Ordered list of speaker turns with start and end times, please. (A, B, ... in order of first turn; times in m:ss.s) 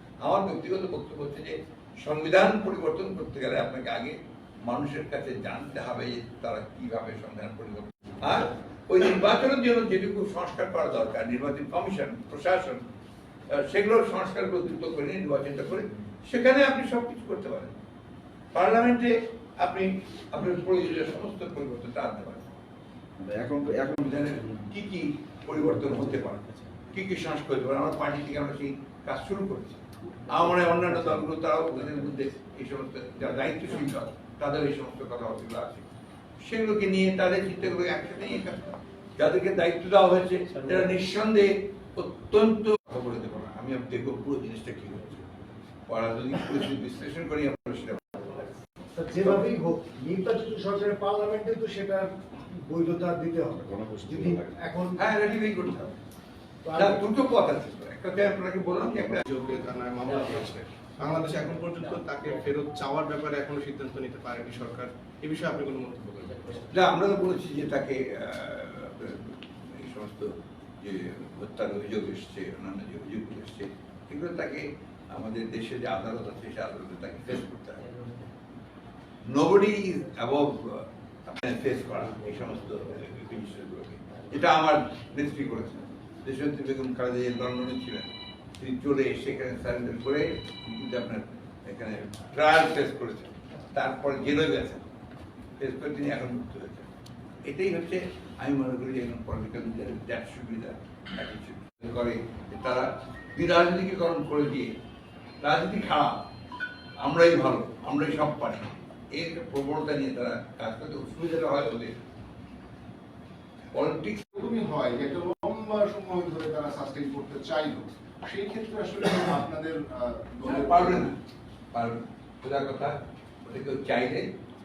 0:00.2-0:12.8 A
0:13.5-0:17.7 A
0:18.5-0:22.6 A
0:23.2-0:24.3 B
0:23.9-0:35.8 A
0:36.4-0:45.2 A
0:45.9-0:48.5 A
0:48.9-0:55.0 C
0:53.5-0:54.6 B
0:55.0-0:55.9 A
0:56.6-0:57.0 C
0:56.7-0:59.2 A
0:59.2-1:06.6 D
1:06.6-1:17.8 A
1:19.2-1:34.8 A
1:35.6-1:36.9 A
1:37.4-1:44.7 A
1:45.4-1:46.2 A
1:47.0-1:52.0 A
1:53.7-1:54.2 A
1:54.3-2:01.1 E
2:00.4-2:01.1 A
2:01.7-2:04.3 A